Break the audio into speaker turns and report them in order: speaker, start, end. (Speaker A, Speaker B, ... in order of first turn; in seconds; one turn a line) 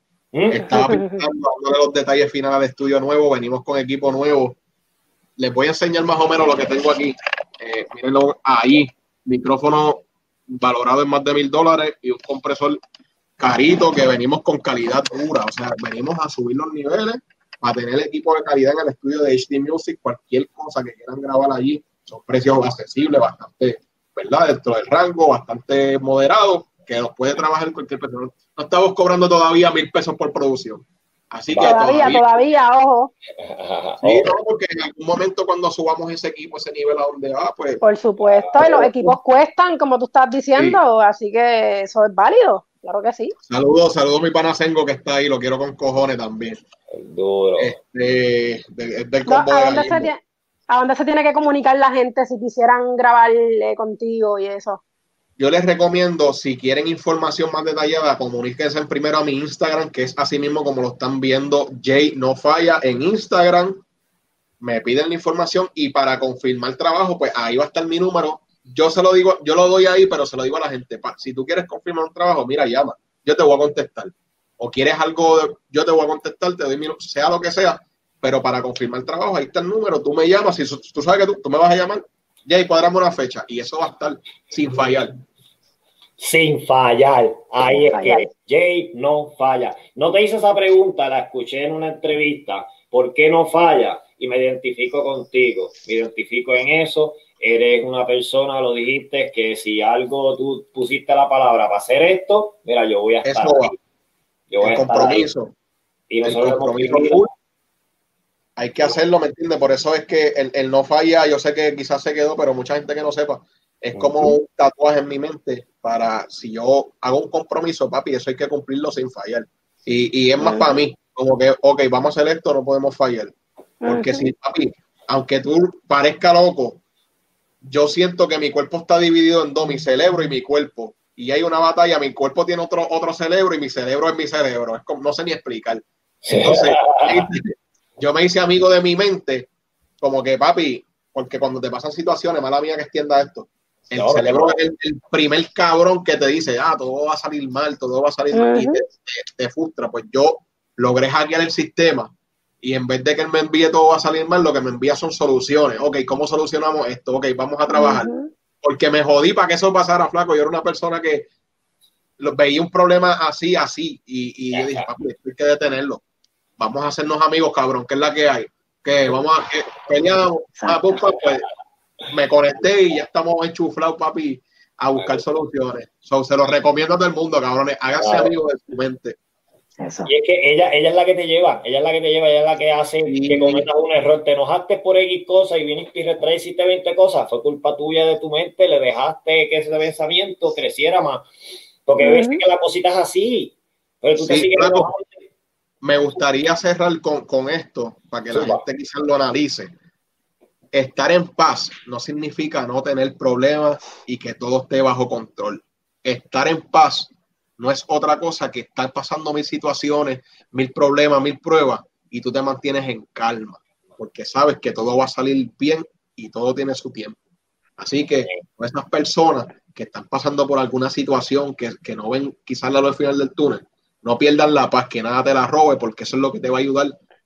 Speaker A: 0.3-0.9
Speaker B: 0.5-4.6
Speaker C: 0.8-1.2
Speaker B: 5.4-12.8
Speaker B: 13.4-32.4
Speaker A: 31.5-32.1
Speaker C: 31.6-33.1
Speaker A: 33.4-34.4
Speaker B: 34.0-37.8
Speaker C: 37.8-43.3
Speaker A: 38.2-38.7
Speaker B: 38.6-39.1
Speaker B: 43.5-46.6
Speaker A: 46.9-47.8
Speaker B: 47.6-50.1
Speaker C: 49.3-50.2
Speaker C: 50.7-54.8
Speaker B: 55.4-63.8
Speaker B: 64.6-85.1
Speaker A: 86.2-103.8
Speaker C: 87.7-88.3
Speaker B: 103.2-103.7
Speaker A: 104.5-105.3
Speaker B: 104.6-105.5
Speaker A: 106.1-107.2
Speaker B: 106.2-107.3
Speaker B: 108.6-123.3
Speaker A: 113.9-114.3
Speaker C: 120.4-120.8
Speaker C: 123.8-124.3
Speaker B: 123.8-126.8
Speaker B: 127.6-139.5
Speaker A: 136.2-137.3
Speaker B: 140.0-158.1
Speaker A: 143.9-144.6
Speaker C: 148.3-148.8
Speaker C: 157.7-158.3
Speaker B: 158.6-161.3
Speaker B: 162.2-166.0
Speaker A: 164.5-164.9
Speaker B: 166.6-171.4
Speaker C: 170.6-171.0
Speaker B: 172.1-179.2
Speaker A: 174.9-175.2
Speaker A: 178.0-178.3
Speaker C: 179.8-180.1
Speaker A: 180.1-191.3
Speaker B: 183.1-183.7
Speaker A: 191.8-195.1
Speaker C: 192.0-192.4
Speaker B: 194.2-194.9
Speaker B: 195.8-199.7
Speaker A: 198.3-198.6
Speaker B: 200.7-217.2
Speaker B: 217.8-227.0
Speaker A: 218.2-218.4